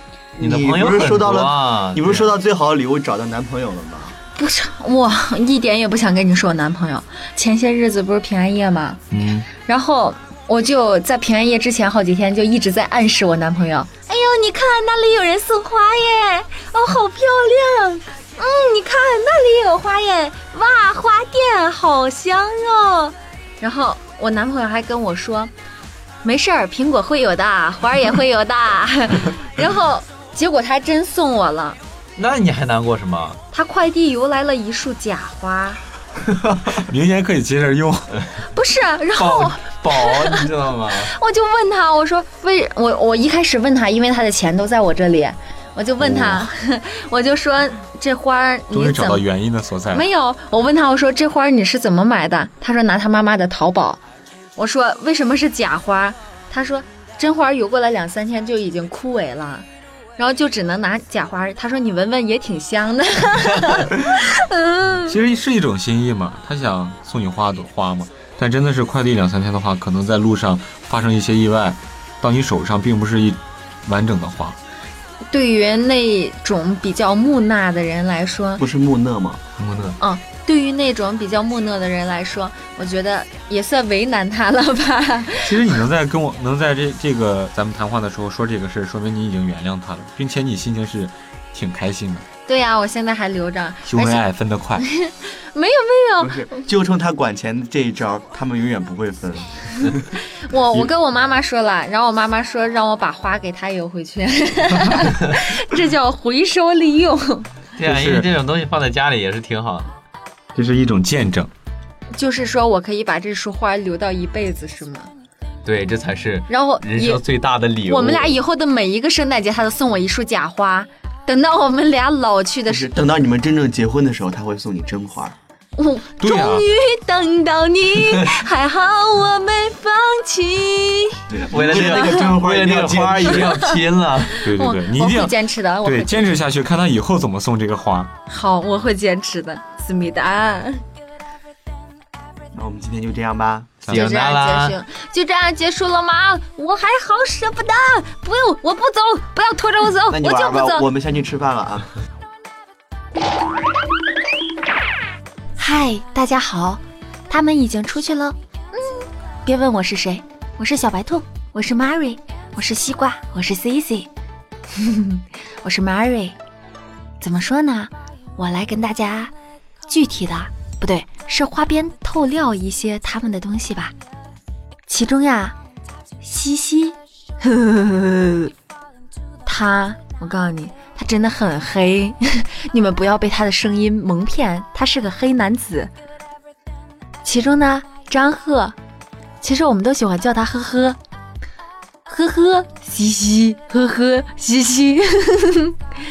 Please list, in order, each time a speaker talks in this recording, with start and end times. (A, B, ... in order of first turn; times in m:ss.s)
0:00.4-0:04.2 A
0:00.4-0:02.3 B
0:04.4-0:09.0 C
0:09.6-0:25.5 C
0:26.2-0:31.8 C
0:32.2-0:33.4 B
0:33.5-0:35.8 C
0:36.8-0:38.2 D
0:38.5-0:40.4 C
0:39.2-0:41.1 B
0:41.1-0:49.2 C
0:46.0-0:46.5 D
0:48.7-0:50.1 D
0:49.9-0:54.0 C
0:54.6-1:05.1 C
1:05.0-1:14.6 D
1:15.3-1:18.6 C
1:18.6-1:19.4 A
1:19.6-1:20.0 B
1:20.0-1:25.6 C
1:25.4-1:32.2 D
1:32.5-1:34.2 C
1:33.8-1:34.8 D
1:34.8-1:36.4 C
1:36.2-1:40.1 A
1:40.4-1:47.5 C
1:47.8-1:49.9 B
1:47.8-1:48.3 D
1:50.5-1:51.5 D
1:52.2-1:55.1 C
1:55.6-1:58.4 B
1:56.5-1:57.2 C
1:57.8-2:02.9 C
2:02.7-2:05.4 A
2:05.8-2:11.2 C
2:06.2-2:06.6 D
2:11.3-2:13.6 A
2:11.5-2:14.4 B
2:14.4-2:18.1 D
2:14.5-2:16.4 C
2:18.3-2:20.8 C
2:22.5-2:23.8 A
2:23.8-2:24.8 B
2:23.9-2:30.8 C
2:30.1-2:31.9 A
2:35.6-2:44.1 C
2:44.7-2:46.4 C
2:47.2-2:49.3 C
2:49.9-2:53.9 C
2:54.9-2:55.6 C
2:56.2-2:58.5 C
2:59.4-3:05.9 C
3:07.2-3:08.8 C
3:09.4-3:11.0 C
3:12.1-3:15.7 C